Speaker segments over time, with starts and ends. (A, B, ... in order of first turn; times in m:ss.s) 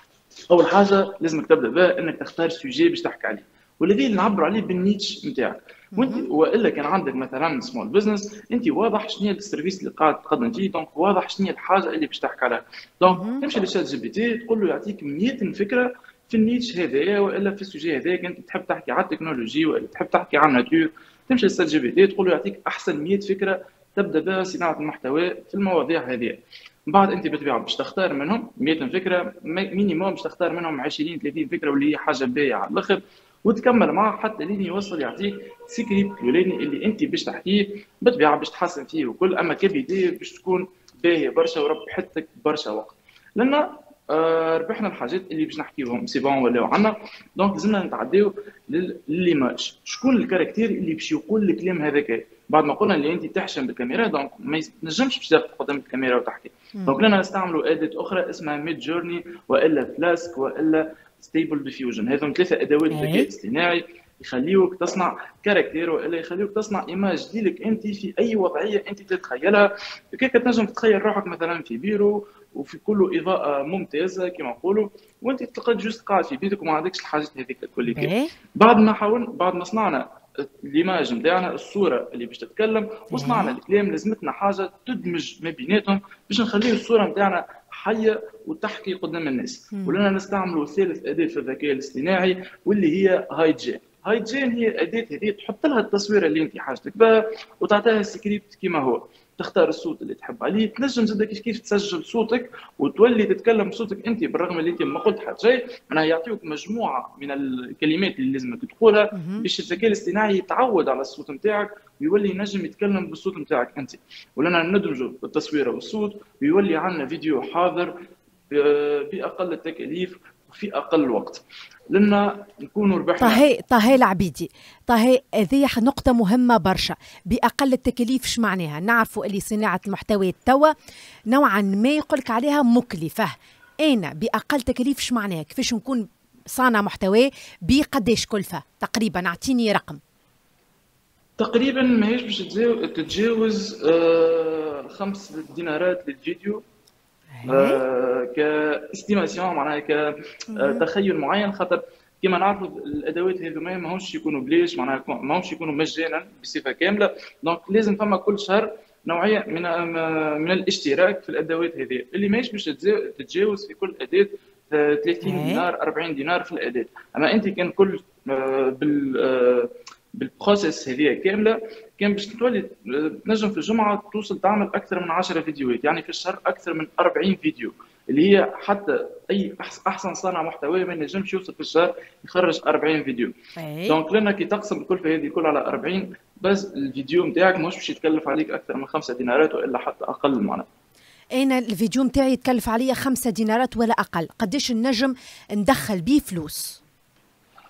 0:00.5-1:57.9 A
0:05.9-0:06.2 B
0:13.1-0:13.4 B
1:02.9-1:03.3 B
1:17.8-1:18.3 B
1:23.1-1:23.5 B
1:49.1-1:49.4 B
1:58.5-2:03.4 A
2:03.2-2:10.7 B
2:11.3-2:20.0 B
2:21.4-2:26.6 A
2:27.3-2:27.8 B
2:27.4-3:03.3 A
2:30.5-2:30.8 B
2:45.2-2:45.6 B
3:03.6-3:04.0 B
3:03.9-3:10.6 A
3:11.4-3:16.8 B